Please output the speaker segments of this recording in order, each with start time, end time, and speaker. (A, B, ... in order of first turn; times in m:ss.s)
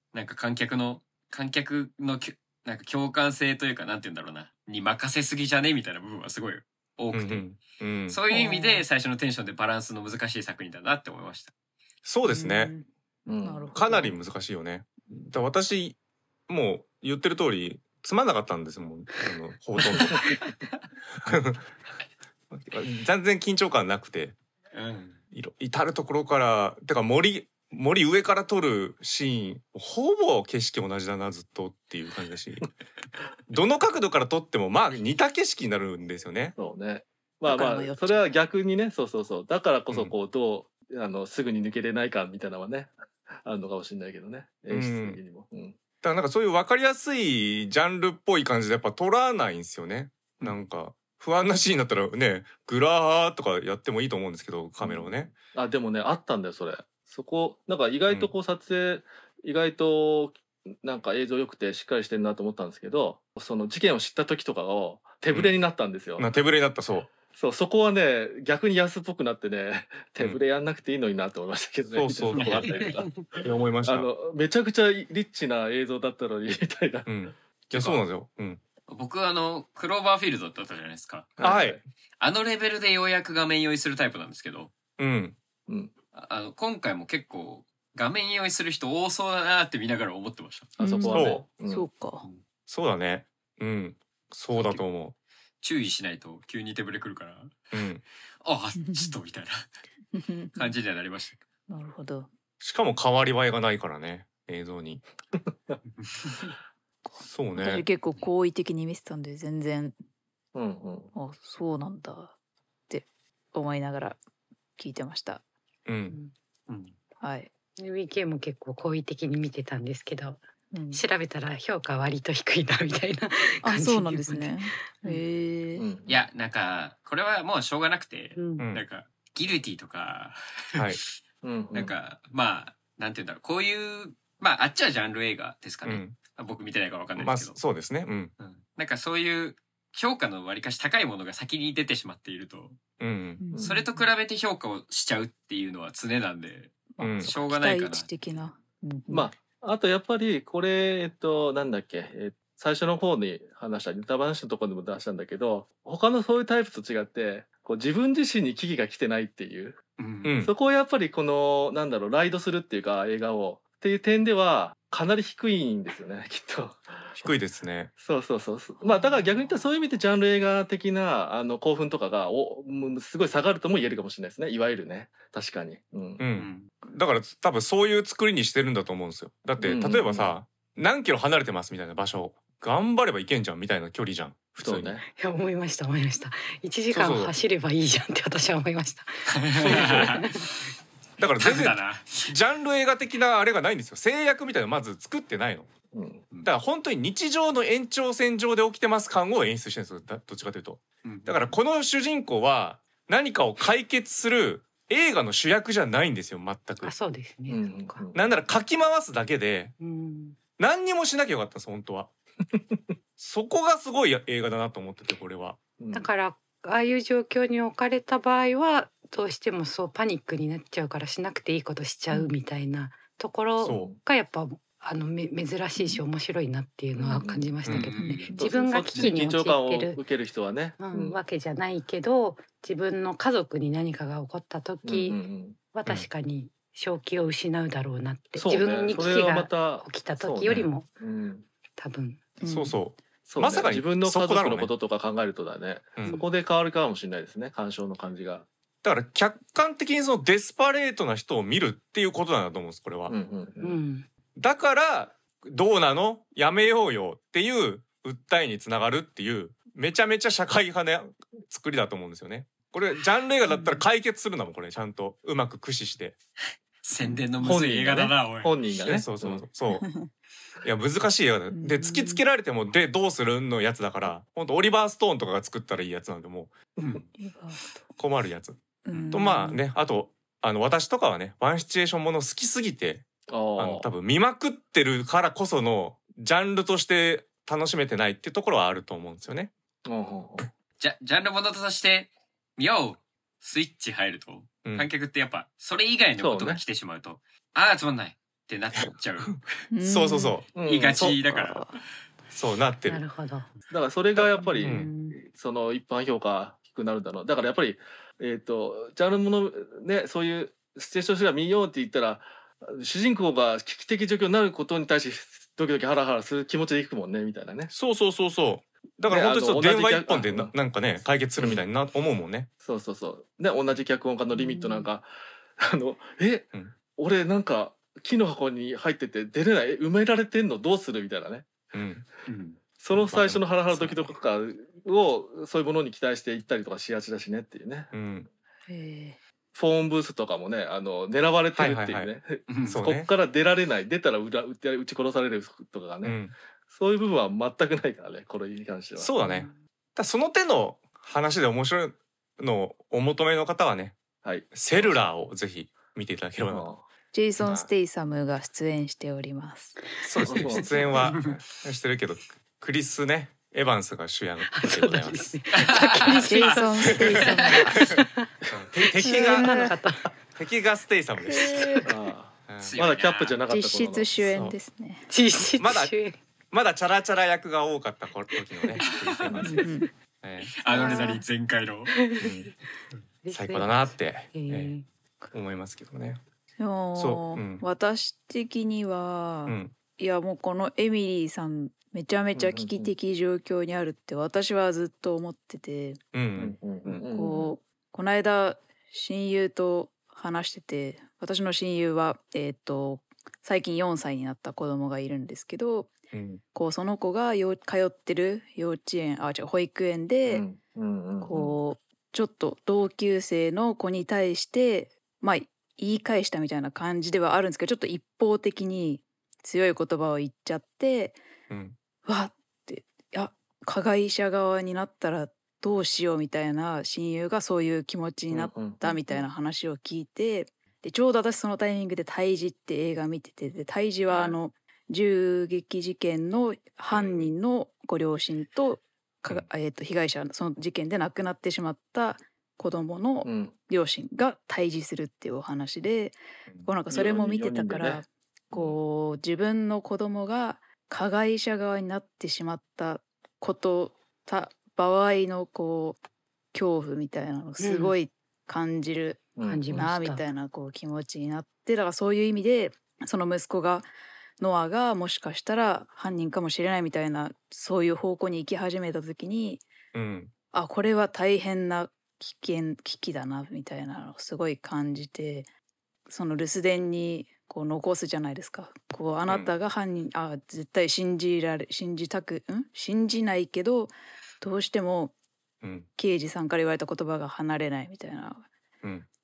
0:00.1-0:11.5 A
0:07.1-0:08.2 B
0:08.3-0:08.8 C
0:12.0-0:12.7 B
0:12.2-0:12.9 C
0:13.3-0:13.7 D
0:13.4-0:14.1 C
0:13.7-0:16.0 B
0:16.5-0:20.4 B
0:21.2-0:21.6 B
0:22.5-0:24.4 B
0:24.7-0:25.2 A
0:25.3-0:32.7 B
0:33.5-0:36.5 B
0:36.5-0:45.8 D
0:37.5-0:38.2 C
0:44.7-0:45.2 B
0:46.0-0:55.4 B
0:54.8-1:06.3 D
1:06.2-1:07.1 B
1:07.3-1:17.1 D
1:11.9-1:12.7 B
1:12.3-1:12.8 A
1:13.4-1:14.1 B
1:17.0-1:18.6 B
1:17.7-1:18.0 D
1:18.9-1:21.3 A
1:21.4-1:21.8 D
1:21.4-1:21.8 B
1:22.2-1:24.7 A
1:25.0-1:25.4 B
1:26.1-1:30.7 A
1:30.8-1:31.8 D
1:30.8-1:32.2 C
1:31.1-1:31.4 B
1:32.7-1:35.1 B
1:34.5-1:34.8 A
1:35.6-1:37.6 A
1:37.7-1:38.0 B
1:38.4-1:39.7 A
1:38.8-1:39.1 C
1:40.1-1:40.7 C
1:40.5-1:41.4 A
1:41.7-1:42.3 C
1:42.6-1:45.0 B
1:45.9-1:46.4 A
1:47.2-1:47.8 B
1:47.5-1:49.9 C
1:50.5-1:51.1 D
1:51.1-1:52.3 C
1:52.9-1:54.2 C
1:54.8-1:55.4 C
1:55.8-1:56.2 B
1:56.7-1:56.9 A
1:57.2-1:57.5 C
1:57.8-2:00.4 E
2:00.7-2:01.0 C
2:00.9-2:05.2 E
2:03.6-2:05.8 C
2:05.8-2:06.1 D
2:06.1-2:11.0 A
2:08.4-2:08.6 E
2:08.6-2:08.8 B
2:11.4-2:11.9 D
2:11.7-2:17.6 A
2:15.8-2:16.2 B
2:17.2-2:18.3 B
2:18.4-2:22.8 A
2:23.0-2:23.4 B
2:23.4-2:23.8 C
2:23.5-2:23.8 D
2:23.6-2:28.3 A
2:27.0-2:29.3 C
2:27.0-2:27.3 B
2:29.1-2:39.8 D
2:40.0-2:40.3 A
2:40.2-2:40.5 B
2:40.4-2:47.0 D
2:47.2-2:47.9 B
2:48.0-2:56.2 D
2:56.2-3:05.0 B
2:56.3-2:56.7 A
2:59.6-3:00.3 D
3:04.6-3:05.0 D
3:05.1-3:10.4 E
3:06.9-3:07.3 B
3:09.3-3:10.5 A
3:09.6-3:10.2 B
3:11.2-3:15.7 B
3:11.4-3:12.3 A
3:15.9-3:16.2 D
3:16.4-3:26.9 B
3:21.0-3:21.6 A
3:26.8-3:28.0 E
3:27.5-3:28.3 D
3:28.1-3:29.7 B
3:29.8-3:30.4 E
3:30.6-3:32.1 B
3:33.2-3:35.6 B
3:35.8-3:36.1 D
3:35.9-3:50.0 E
3:43.6-3:43.9 B
3:43.7-3:44.0 D
3:46.9-3:47.5 D
3:47.7-3:48.3 A
3:48.0-3:48.4 C
3:48.3-3:51.2 D
3:50.8-3:55.2 E
3:54.8-3:55.6 D
3:55.7-4:00.9 E
3:58.4-4:01.5 D
4:01.8-4:02.2 E
4:02.4-4:02.8 C
4:02.4-4:04.7 B
4:03.2-4:08.4 D
4:08.8-4:13.1 B
4:13.1-4:13.8 D
4:13.6-4:14.1 E
4:14.4-4:26.2 B
4:26.8-4:28.5 A
4:27.4-4:29.4 D
4:28.8-4:29.8 B
4:29.7-4:30.1 C
4:30.6-4:36.5 B
4:31.5-4:32.2 C
4:36.8-4:37.1 A
4:37.2-4:37.7 C
4:38.0-4:38.6 B
4:38.8-4:39.6 C
4:39.1-4:49.5 B
4:43.3-4:43.9 D
4:49.8-4:50.5 D
4:50.8-4:59.4 A
4:56.2-4:56.6 D
4:59.7-5:00.4 C
4:59.8-5:00.5 B
5:00.6-5:01.2 D
5:00.6-5:01.8 A
5:01.3-5:01.7 C
5:02.3-5:03.0 B
5:02.8-5:03.5 E
5:03.7-5:17.7 D
5:04.4-5:05.1 E
5:04.6-5:04.9 B
5:17.7-5:22.5 B
5:19.1-5:20.5 D
5:22.6-5:31.5 D
5:24.3-5:24.9 C
5:31.7-5:32.0 B
5:32.3-5:32.6 A
5:32.8-5:37.9 D
5:32.9-5:34.1 B
5:37.9-5:38.3 B
5:38.7-5:39.2 C
5:39.5-5:49.1 D
5:41.5-5:42.1 B
5:42.5-5:42.8 A
5:42.6-5:43.1 B
5:46.0-5:46.3 B
5:49.0-5:54.0 B
5:49.2-5:49.5 E
5:54.2-5:55.0 D
5:54.5-5:56.7 B
5:56.5-5:56.8 D
5:57.1-5:59.8 C
5:57.4-5:57.7 B
6:00.0-6:05.3 B
6:00.2-6:01.1 D
6:04.5-6:10.1 E
6:05.6-6:06.6 A
6:06.1-6:07.8 C
6:08.5-6:09.5 B
6:09.0-6:09.7 C
6:10.4-6:11.8 B
6:11.4-6:11.8 E
6:11.8-6:14.1 D
6:12.5-6:12.8 B
6:12.6-6:13.4 A
6:13.5-6:15.1 C
6:14.2-6:14.6 B
6:15.1-6:16.2 E
6:15.5-6:15.9 B
6:16.5-6:19.6 B
6:19.1-6:19.5 A
6:19.4-6:19.8 E
6:19.5-6:19.9 C
6:20.2-6:21.1 B
6:20.6-6:21.9 A
6:20.7-6:21.2 E
6:21.9-6:22.5 E
6:22.2-6:22.5 B
6:23.2-6:24.8 E
6:23.3-6:24.7 B
6:25.3-6:26.2 B
6:26.6-6:36.0 C
6:26.9-6:27.6 B
6:29.4-6:29.7 B
6:32.3-6:32.9 D
6:36.1-6:36.6 B
6:36.4-6:37.5 D
6:36.8-6:45.9 C
6:46.1-6:46.4 B
6:46.5-6:50.4 C
6:50.2-6:51.6 D
6:51.2-7:01.2 C
7:01.5-7:01.8 B
7:02.0-7:36.0 C
7:08.3-7:09.2 D
7:14.1-7:14.4 D
7:23.2-7:23.5 D
7:26.9-7:28.7 D
7:36.5-7:43.9 C
7:37.6-7:37.9 E
7:39.4-7:39.9 D
7:39.4-7:40.2 E
7:44.4-7:49.6 C
7:49.9-7:50.3 B
7:50.5-7:55.5 C
7:56.1-8:05.1 C
8:05.6-8:05.9 B
8:06.0-8:08.4 C